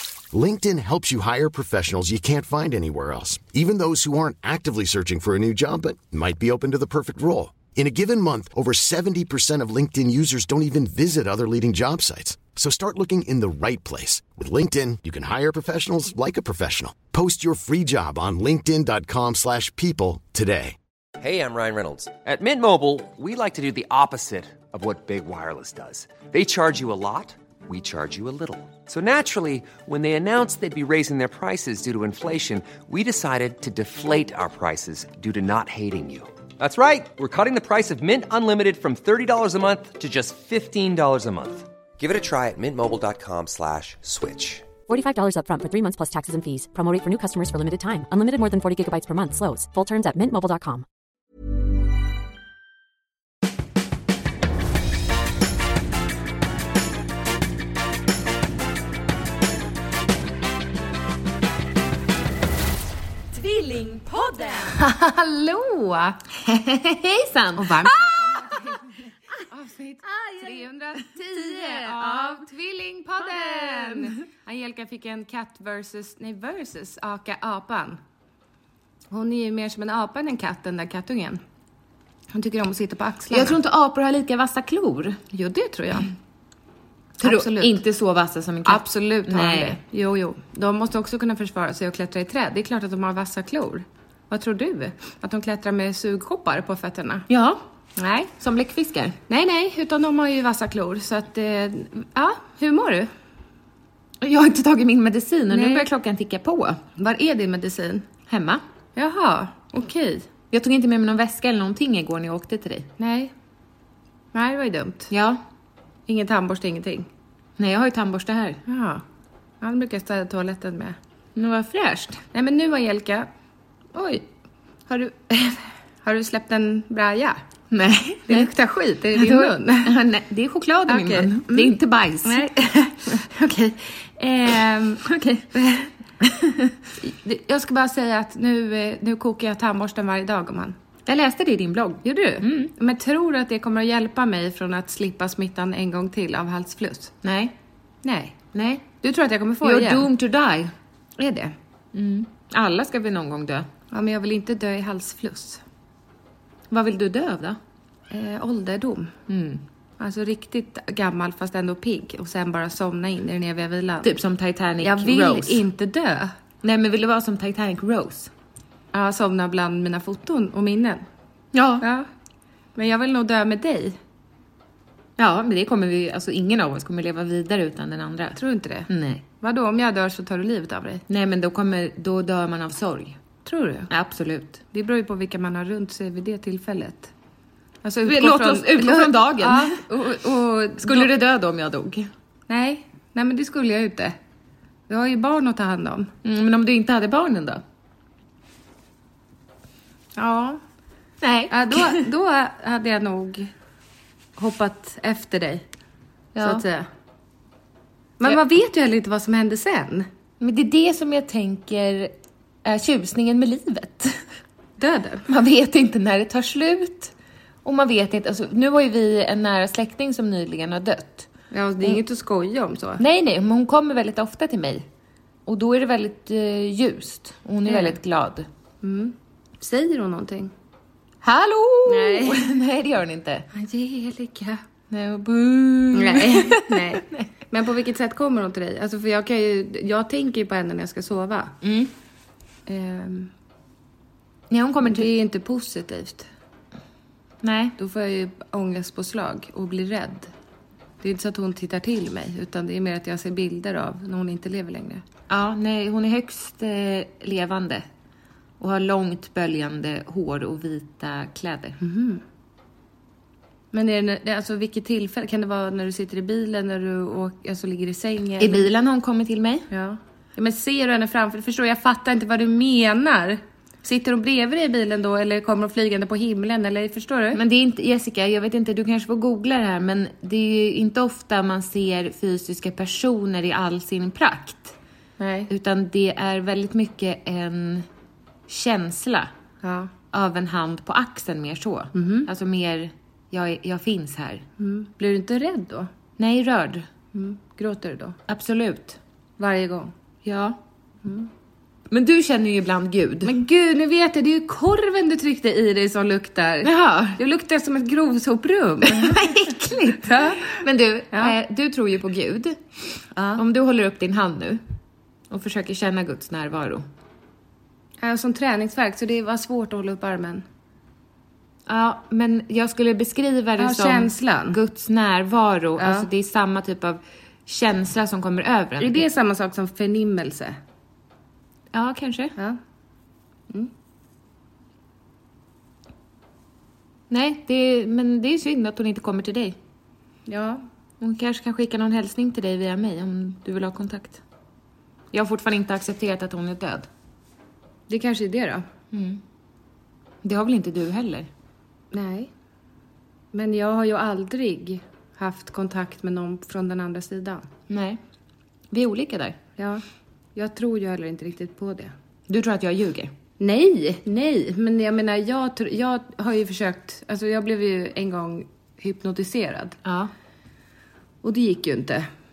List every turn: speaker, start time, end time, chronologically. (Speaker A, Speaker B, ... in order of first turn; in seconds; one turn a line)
Speaker A: 0.3-20.8
Speaker B: 21.2-44.6
Speaker C: 44.9-50.8
Speaker D: 63.3-64.8
Speaker E: 64.7-66.2
Speaker D: 66.4-68.8
Speaker E: 67.5-78.0
Speaker D: 70.0-72.5
Speaker D: 73.2-74.1
Speaker E: 79.1-81.4
Speaker E: 82.3-83.6
Speaker D: 83.3-85.2
Speaker E: 85.3-86.1
Speaker E: 87.2-87.8
Speaker D: 87.2-89.8
Speaker E: 88.7-97.2
Speaker D: 97.3-97.6
Speaker E: 98.0-98.3
Speaker D: 98.4-99.1
Speaker E: 99.3-103.1
Speaker D: 104.2-106.8
Speaker E: 105.5-105.9
Speaker E: 107.0-108.0
Speaker D: 108.3-108.6
Speaker E: 109.0-110.3
Speaker D: 110.5-112.9
Speaker E: 113.0-113.3
Speaker E: 114.3-115.1
Speaker D: 115.1-115.4
Speaker E: 116.1-117.1
Speaker D: 117.6-118.6
Speaker E: 118.7-119.0
Speaker E: 119.6-121.0
Speaker D: 121.3-122.2
Speaker E: 122.3-123.3
Speaker E: 123.9-124.2
Speaker E: 124.9-127.4
Speaker D: 127.7-128.5
Speaker E: 128.3-129.9
Speaker D: 129.2-132.4
Speaker E: 130.9-135.9
Speaker D: 135.0-135.5
Speaker D: 136.2-136.7
Speaker E: 137.0-140.7
Speaker D: 141.1-142.7
Speaker E: 142.0-147.1
Speaker D: 147.2-147.5
Speaker E: 148.0-148.3
Speaker D: 148.5-148.8
Speaker E: 149.0-150.1
Speaker D: 149.6-150.7
Speaker E: 151.2-151.5
Speaker D: 151.9-153.7
Speaker E: 153.9-155.6
Speaker D: 156.7-157.6
Speaker E: 158.1-159.1
Speaker D: 159.3-159.6
Speaker E: 160.0-164.1
Speaker D: 164.0-165.6
Speaker E: 164.8-166.3
Speaker D: 166.6-168.3
Speaker E: 168.9-171.0
Speaker D: 171.5-171.8
Speaker E: 171.8-172.1
Speaker E: 172.8-173.9
Speaker D: 175.2-178.4
Speaker E: 178.3-178.9
Speaker D: 178.9-179.2
Speaker E: 179.4-181.0
Speaker D: 181.1-183.2
Speaker E: 183.4-183.9
Speaker D: 183.9-184.6
Speaker E: 184.7-187.1
Speaker E: 187.8-191.1
Speaker D: 188.0-189.8
Speaker D: 190.8-192.1
Speaker E: 192.5-194.2
Speaker E: 194.9-196.1
Speaker D: 196.2-197.6
Speaker E: 200.2-200.6
Speaker D: 201.2-202.0
Speaker E: 201.5-203.5
Speaker E: 204.4-205.6
Speaker D: 206.3-206.6
Speaker E: 206.4-206.9
Speaker E: 208.2-210.1
Speaker D: 210.4-212.1
Speaker D: 212.6-214.2
Speaker E: 214.8-215.2
Speaker D: 215.3-217.1
Speaker D: 217.6-221.3
Speaker E: 221.5-223.0
Speaker D: 223.0-224.8
Speaker D: 225.4-228.5
Speaker E: 227.7-227.9
Speaker E: 228.8-230.5
Speaker D: 231.2-233.4
Speaker E: 231.8-232.5
Speaker E: 233.5-234.6
Speaker D: 234.9-237.3
Speaker E: 235.9-241.6
Speaker D: 241.6-241.9
Speaker E: 242.7-243.3
Speaker D: 244.5-245.1
Speaker E: 244.8-246.3
Speaker D: 247.4-247.7
Speaker E: 247.8-250.3
Speaker E: 251.0-255.0
Speaker D: 255.3-257.9
Speaker D: 258.6-261.8
Speaker E: 261.8-262.2
Speaker E: 263.7-268.7
Speaker D: 268.4-269.6
Speaker E: 269.7-277.4
Speaker D: 277.3-284.8
Speaker E: 285.2-285.5
Speaker D: 285.5-287.9
Speaker D: 288.5-289.3
Speaker E: 289.6-289.9
Speaker D: 290.1-294.4
Speaker E: 291.9-292.3
Speaker E: 294.6-295.9
Speaker D: 296.2-296.9
Speaker E: 297.1-298.2
Speaker D: 298.3-299.0
Speaker E: 299.4-299.9
Speaker D: 300.2-300.6
Speaker E: 301.0-301.3
Speaker D: 301.9-303.3
Speaker E: 303.2-309.3
Speaker D: 306.6-307.2
Speaker D: 308.9-312.6
Speaker E: 310.0-310.6
Speaker E: 313.1-313.4
Speaker D: 313.4-314.6
Speaker D: 315.3-316.8
Speaker E: 318.0-320.4
Speaker D: 321.7-329.0
Speaker E: 323.6-324.6
Speaker E: 325.8-326.1
Speaker E: 328.8-330.6
Speaker D: 331.7-332.3
Speaker D: 337.1-339.6
Speaker E: 340.2-340.6
Speaker D: 341.0-344.2
Speaker D: 345.1-346.9
Speaker E: 347.9-348.6
Speaker D: 348.9-349.2
Speaker D: 350.2-351.3
Speaker E: 351.9-352.3
Speaker E: 353.3-357.5
Speaker D: 357.7-358.0
Speaker D: 358.7-359.4
Speaker E: 359.6-359.8
Speaker E: 360.3-361.9
Speaker D: 362.3-363.1
Speaker E: 363.4-369.8
Speaker D: 369.8-370.1
Speaker E: 371.2-372.1